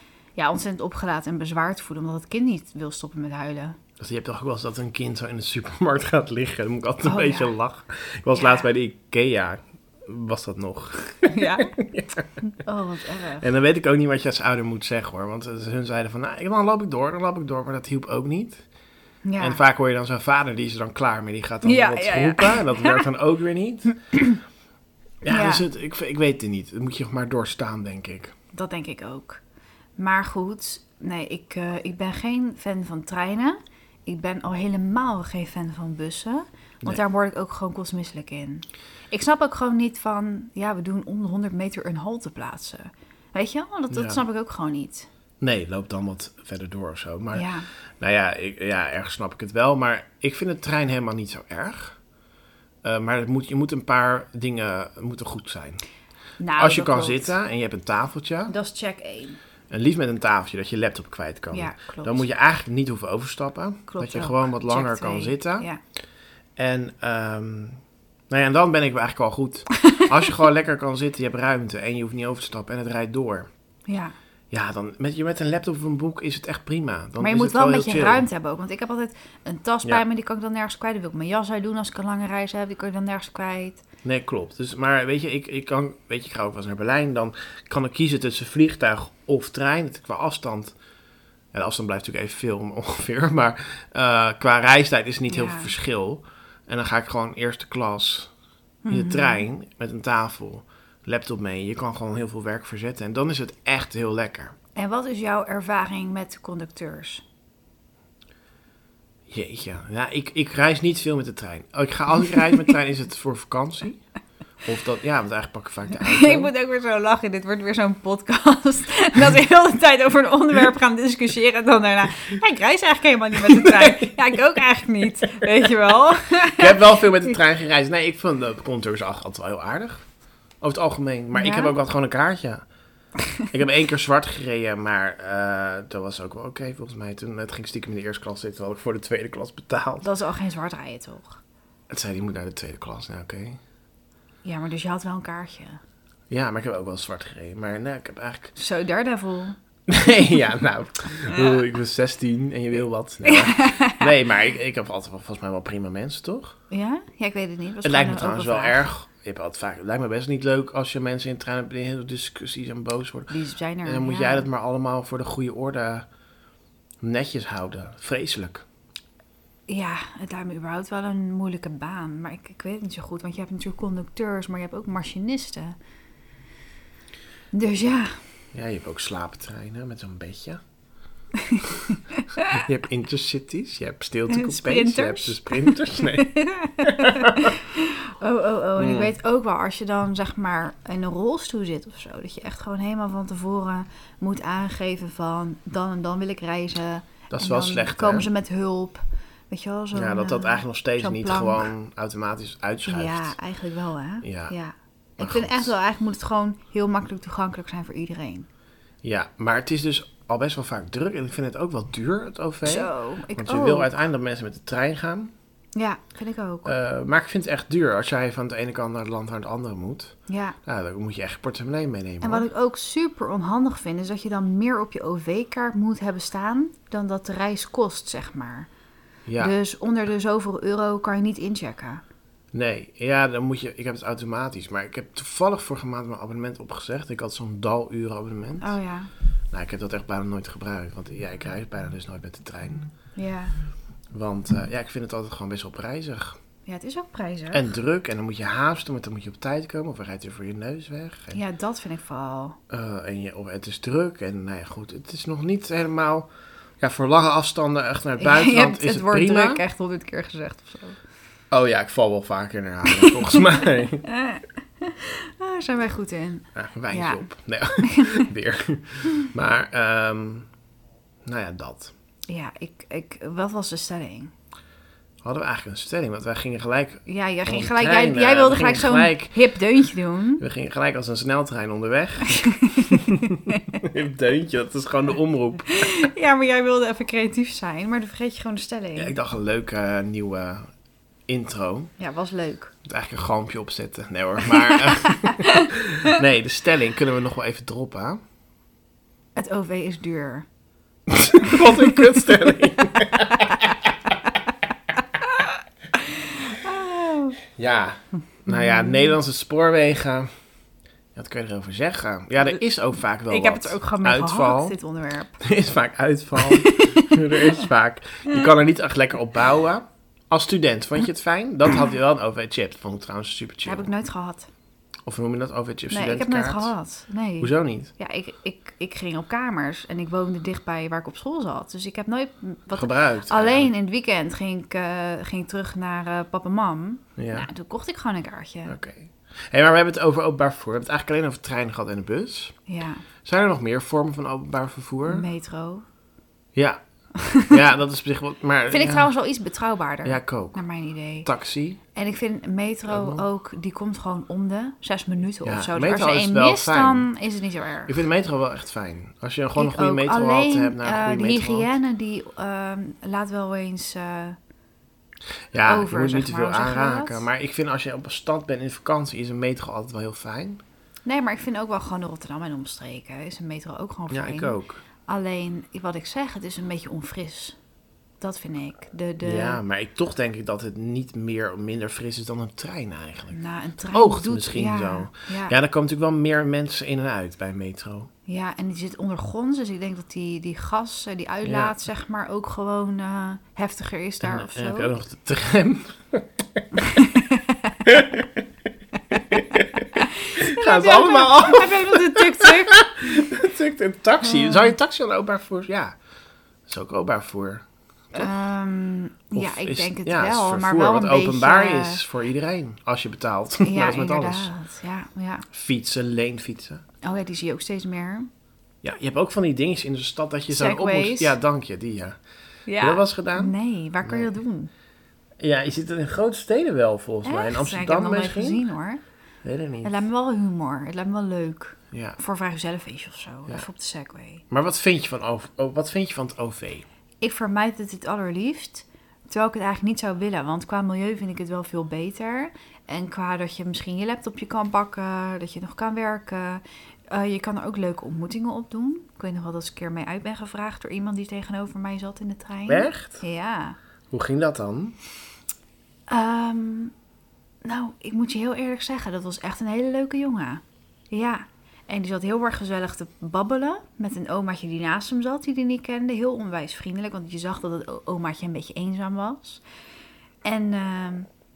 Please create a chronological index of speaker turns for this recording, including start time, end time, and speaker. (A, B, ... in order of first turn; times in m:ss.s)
0:00.4-0:03.8 A
0:04.0-0:12.2 B
0:07.0-0:07.5 A
0:08.3-0:08.7 A
0:11.3-0:11.7 A
0:12.5-0:13.4 A
0:13.4-0:18.6 B
0:19.2-0:19.6 A
0:19.4-0:24.2 B
0:21.6-0:23.0 A
0:25.2-0:28.3 B
0:25.3-0:25.7 A
0:28.5-0:29.4 A
0:30.0-0:45.1 A
0:43.9-0:44.2 B
0:45.4-0:52.0 B
0:47.3-0:47.7 A
0:52.8-0:55.8 B
0:56.4-0:57.4 A
0:56.5-0:58.5 B
0:58.5-0:59.4 A
0:59.7-1:05.7 B
1:01.5-1:02.2 A
1:03.9-1:05.8 A
1:06.6-1:13.5 B
1:13.9-1:14.2 A
1:14.5-1:18.2 B
1:17.2-1:23.8 A
1:24.0-1:30.8 B
1:31.5-1:38.3 B
1:35.3-1:35.7 A
1:38.8-1:39.4 A
1:38.9-1:44.6 B
1:44.8-1:47.2 A
1:49.3-1:54.0 B
1:54.6-1:56.5 B
1:56.0-2:07.3 A
2:03.7-2:04.1 B
2:06.6-2:10.0 B
2:10.6-2:12.6 B
2:11.3-2:11.7 A
2:13.5-2:20.1 B
2:20.0-2:21.4 A
2:21.9-2:23.6 B
2:24.4-2:25.8 A
2:26.3-2:28.5 B
2:28.6-2:29.6 A
2:29.9-2:36.6 B
2:31.3-2:31.6 A
2:33.3-2:34.1 A
2:36.7-2:38.8 A
2:37.8-2:46.1 B
2:43.3-2:44.5 A
2:47.0-2:48.6 B
2:49.7-2:55.8 A
2:57.5-2:58.2 A
2:58.5-3:00.6 B
3:02.4-3:07.5 B
3:04.3-3:21.7 A
3:08.8-3:09.1 B
3:17.3-3:18.3 B
3:19.9-3:23.4 B
3:22.9-3:28.5 A
3:24.2-3:24.5 B
3:25.2-3:25.7 B
3:29.0-3:35.3 B
3:32.6-3:33.9 A
3:35.8-3:36.7 A
3:36.6-3:40.1 B
3:40.3-3:40.6 A
3:40.6-3:42.5 B
3:42.2-3:48.7 A
3:49.3-3:49.5 B
3:49.4-3:52.0 A
3:52.5-3:58.8 B
3:58.6-3:59.1 A
3:59.5-4:02.9 B
4:03.2-4:03.5 A
4:04.1-4:06.4 B
4:06.7-4:07.7 A
4:07.5-4:11.4 B
4:11.3-4:12.6 A
4:12.7-4:19.6 B
4:18.2-4:21.0 A
4:21.5-4:24.1 B
4:24.1-4:27.2 A
4:26.6-4:30.5 B
4:27.8-4:28.3 A
4:31.2-4:31.9 B
4:32.3-4:34.3 A
4:35.2-4:39.6 B
4:37.1-4:40.4 A
4:40.4-4:46.0 B
4:42.3-4:43.6 A
4:45.7-4:49.1 A
4:49.0-4:50.7 B
4:51.3-4:51.9 B
4:52.0-4:52.7 A
4:52.8-4:58.2 B
4:54.8-4:55.6 A
4:59.4-5:00.5 A
5:01.1-5:03.9 B
5:01.4-5:02.2 A
5:06.0-5:07.4 A
5:07.5-5:10.3 B
5:08.5-5:09.2 A
5:11.2-5:14.8 B
5:13.3-5:15.4 A
5:15.4-5:23.9 B
5:16.4-5:17.7 A
5:23.6-5:24.5 A
5:25.1-5:26.7 B
5:25.9-5:38.8 A
5:27.4-5:27.9 B
5:32.8-5:33.7 B
5:37.2-5:37.5 B
5:38.7-5:42.6 B
5:42.7-5:43.0 A
5:43.2-5:45.3 B
5:45.1-5:45.9 A
5:46.6-5:46.8 B
5:47.2-5:47.6 A
5:47.4-5:49.1 B
5:48.7-5:51.3 A
5:50.0-5:50.6 B
5:51.2-5:51.8 B
5:52.0-5:58.0 A
5:52.9-5:53.2 B
5:55.4-5:57.1 B
5:57.9-6:01.7 B
5:59.6-6:04.4 A
6:05.5-6:10.6 B
6:05.6-6:07.3 A
6:11.0-6:14.6 A
6:14.1-6:14.8 B
6:15.1-6:17.6 A
6:18.2-6:19.6 A
6:19.2-6:23.4 B
6:23.3-6:25.6 A
6:23.9-6:28.1 B
6:28.3-6:34.9 A
6:31.4-6:31.8 B
6:34.2-6:36.6 B
6:36.8-6:37.7 A
6:37.8-6:38.3 B
6:39.3-6:46.0 B
6:40.0-6:43.2 A
6:44.2-6:44.6 A
6:46.7-6:48.3 B
6:48.1-6:52.0 A
6:49.4-6:54.5 B
6:53.6-6:55.5 A
6:55.5-6:56.8 B
6:57.0-6:58.3 A
6:58.8-7:02.2 B
7:00.5-7:01.4 A
7:02.7-7:04.7 A
7:02.8-7:04.3 B
7:05.4-7:08.6 B
7:07.2-7:09.0 A
7:09.4-7:10.0 B
7:09.8-7:14.4 A
7:11.9-7:12.2 B
7:14.5-7:16.9 B
7:17.2-7:33.8 A
7:32.7-7:33.2 B
7:34.1-7:35.0 B
7:36.1-7:36.9 A
7:37.6-7:49.6 A
7:50.4-7:51.3 A